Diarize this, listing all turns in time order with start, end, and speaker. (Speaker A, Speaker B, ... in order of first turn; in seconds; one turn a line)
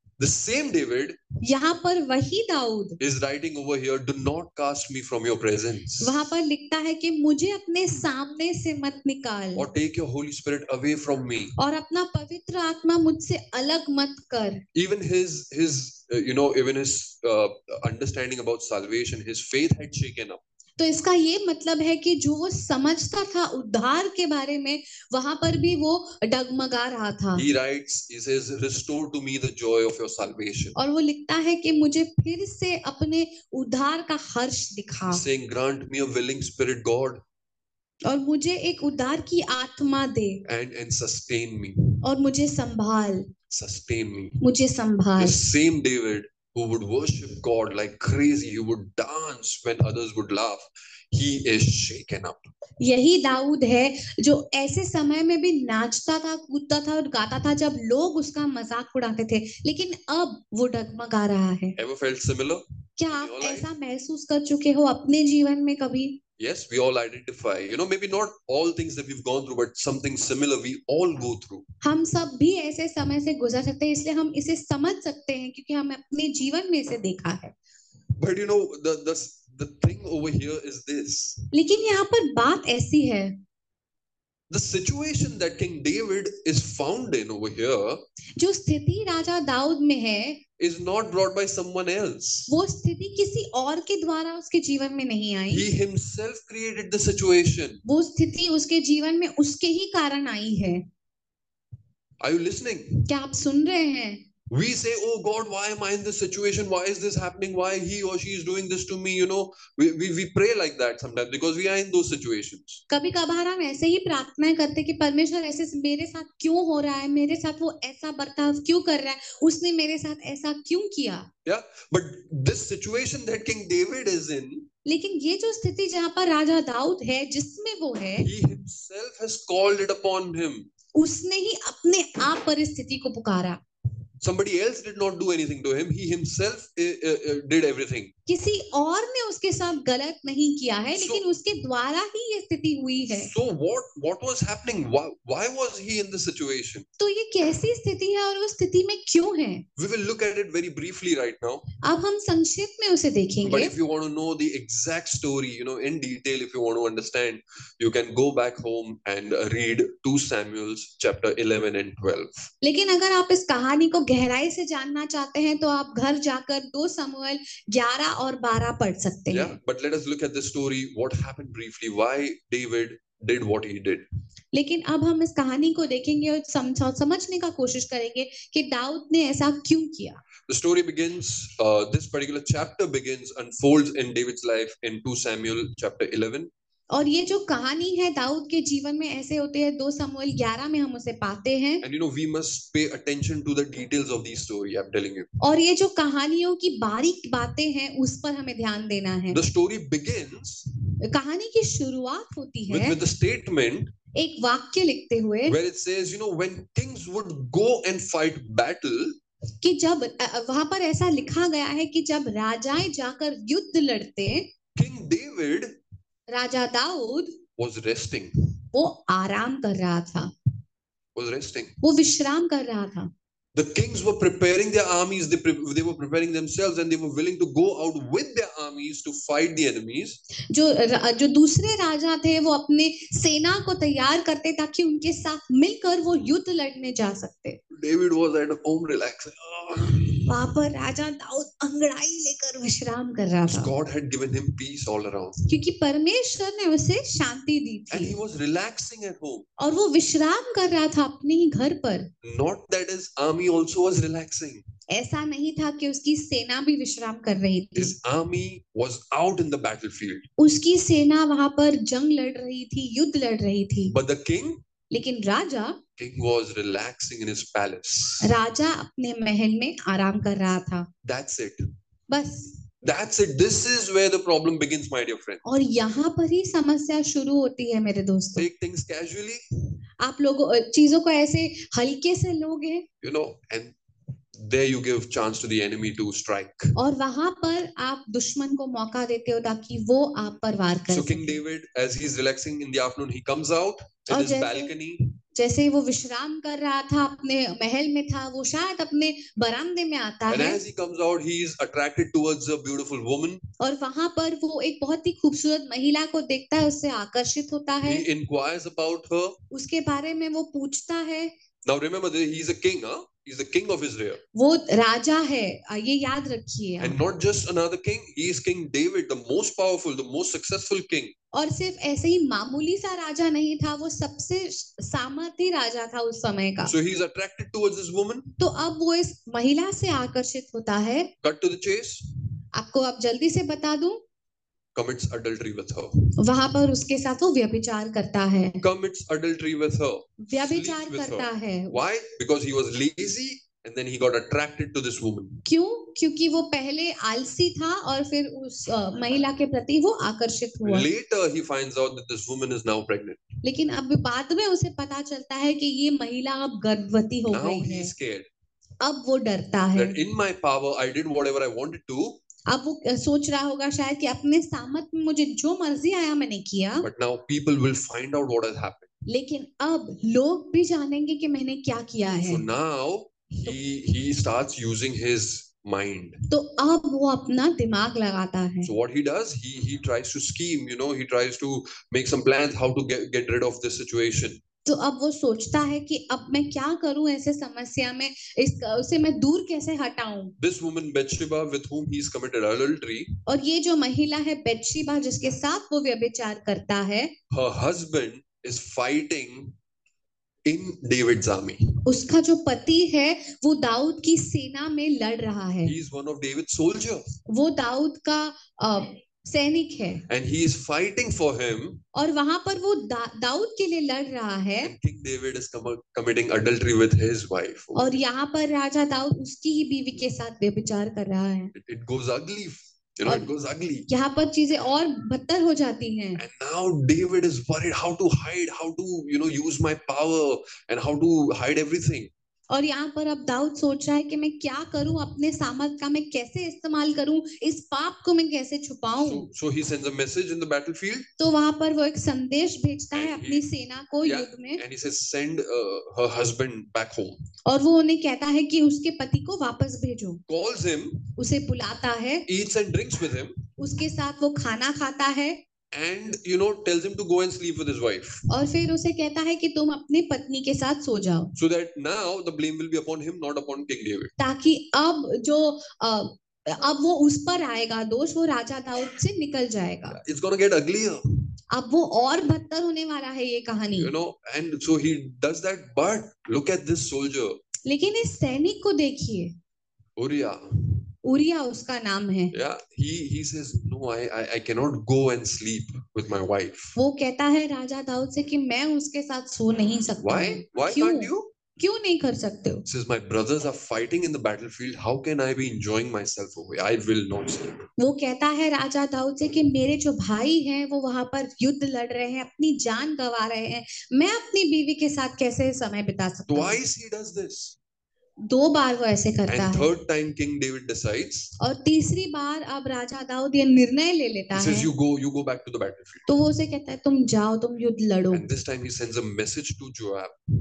Speaker A: 0.2-1.2
Speaker B: 1.4-3.0
Speaker A: 3.0-6.3
Speaker B: 6.0-9.7
Speaker A: 9.6-11.6
Speaker B: 11.6-14.6
Speaker A: 14.8-20.4
Speaker B: 20.8-27.4
Speaker A: 27.4-30.8
Speaker B: 30.8-35.2
Speaker A: 35.1-37.2
Speaker B: 38.0-40.4
Speaker A: 40.5-42.0
Speaker B: 42.0-43.3
Speaker A: 43.5-44.4
Speaker B: 44.4-45.4
Speaker A: 45.2-52.5
Speaker B: 52.8-61.8
Speaker A: 61.8-63.7
Speaker B: 63.0-66.2
Speaker A: 66.4-71.7
Speaker B: 71.8-77.5
Speaker A: 78.2-81.4
Speaker B: 81.5-83.4
Speaker A: 84.5-88.0
Speaker B: 88.4-90.4
Speaker A: 90.6-92.5
Speaker B: 92.5-95.7
Speaker A: 95.5-97.8
Speaker B: 97.8-100.8
Speaker A: 102.2-103.1
Speaker B: 103.1-104.2
Speaker A: 104.5-112.8
Speaker B: 112.9-121.3
Speaker A: 121.5-124.7
Speaker B: 124.8-128.3
Speaker A: 128.2-130.7
Speaker B: 130.9-133.6
Speaker A: 134.2-138.1
Speaker B: 138.3-143.3
Speaker A: 140.9-141.2
Speaker A: 143.1-146.9
Speaker B: 147.0-149.7
Speaker A: 149.8-151.7
Speaker B: 151.8-153.7
Speaker A: 153.4-162.5
Speaker B: 162.6-169.6
Speaker A: 169.3-174.1
Speaker B: 174.5-180.2
Speaker A: 180.5-186.5
Speaker B: 186.9-191.8
Speaker A: 191.8-195.3
Speaker B: 195.4-199.4
Speaker A: 199.3-200.7
Speaker B: 201.0-203.0
Speaker A: 202.7-203.9
Speaker B: 204.1-205.6
Speaker A: 205.5-209.2
Speaker B: 209.6-214.5
Speaker A: 214.8-215.8
Speaker B: 216.3-217.4
Speaker A: 217.6-218.3
Speaker B: 218.7-220.3
Speaker A: 221.2-221.8
Speaker B: 221.8-223.1
Speaker A: 223.6-230.2
Speaker B: 230.5-237.6
Speaker A: 237.7-240.3
Speaker B: 240.3-243.7
Speaker A: 243.5-245.4
Speaker B: 245.5-248.2
Speaker A: 247.9-249.5
Speaker B: 249.6-252.1
Speaker A: 252.2-254.6
Speaker B: 254.9-257.9
Speaker A: 257.8-260.3
Speaker B: 260.4-263.9
Speaker A: 263.9-264.6
Speaker B: 264.9-265.8
Speaker A: 266.0-268.3
Speaker B: 268.2-270.9
Speaker A: 271.0-271.7
Speaker B: 272.1-272.5
Speaker A: 272.8-275.4
Speaker B: 275.4-278.5
Speaker A: 278.4-279.4
Speaker B: 280.0-282.9
Speaker A: 283.0-283.8
Speaker A: 284.4-286.8
Speaker B: 286.8-291.4
Speaker A: 290.9-295.1
Speaker B: 294.1-294.7
Speaker B: 295.3-300.6
Speaker A: 300.3-303.4
Speaker B: 303.6-308.1
Speaker A: 307.8-309.4
Speaker B: 309.5-311.3
Speaker A: 311.7-314.2
Speaker B: 314.3-317.0
Speaker A: 316.8-321.1
Speaker B: 321.3-326.7
Speaker A: 326.7-328.3
Speaker B: 328.4-331.1
Speaker A: 331.2-332.0
Speaker B: 332.6-334.0
Speaker A: 334.8-335.9
Speaker B: 336.2-338.6
Speaker A: 338.6-345.4
Speaker B: 340.2-341.8
Speaker B: 345.5-350.9
Speaker A: 350.6-353.3
Speaker B: 353.4-357.9
Speaker A: 357.3-358.3
Speaker B: 358.8-360.0
Speaker A: 359.8-362.2
Speaker B: 362.5-366.9
Speaker A: 366.8-368.9
Speaker B: 369.1-372.4
Speaker A: 372.2-376.2
Speaker B: 376.3-378.7
Speaker A: 378.6-384.4
Speaker B: 384.7-390.4
Speaker A: 390.4-393.1
Speaker B: 393.3-397.1
Speaker A: 397.3-399.6
Speaker A: 400.5-401.7
Speaker B: 401.9-405.7
Speaker A: 405.6-407.1
Speaker B: 407.3-410.0
Speaker A: 410.1-411.8
Speaker B: 411.9-414.7
Speaker A: 414.6-417.9
Speaker B: 417.8-421.5
Speaker A: 421.6-423.9
Speaker B: 423.9-426.2
Speaker A: 426.2-432.1
Speaker B: 432.5-439.3
Speaker A: 439.0-441.1
Speaker B: 441.2-444.6
Speaker A: 442.9-443.5
Speaker A: 444.0-447.2
Speaker B: 447.5-450.2
Speaker A: 450.3-451.1
Speaker B: 451.2-452.3
Speaker A: 452.3-453.5
Speaker B: 453.6-455.4
Speaker A: 455.7-458.2
Speaker B: 458.3-461.3
Speaker A: 461.4-464.1
Speaker B: 464.2-470.0
Speaker A: 469.9-471.0
Speaker B: 471.5-473.9
Speaker A: 473.8-477.4
Speaker B: 477.6-479.4
Speaker A: 480.0-480.8
Speaker B: 481.0-482.3
Speaker A: 482.3-486.8
Speaker B: 486.8-492.6
Speaker A: 490.0-491.3
Speaker A: 492.7-497.7
Speaker B: 497.8-506.6
Speaker A: 506.3-507.6
Speaker B: 508.3-509.7
Speaker A: 509.3-511.3
Speaker B: 511.4-514.7
Speaker A: 514.3-516.1
Speaker B: 516.1-518.3
Speaker A: 518.1-520.2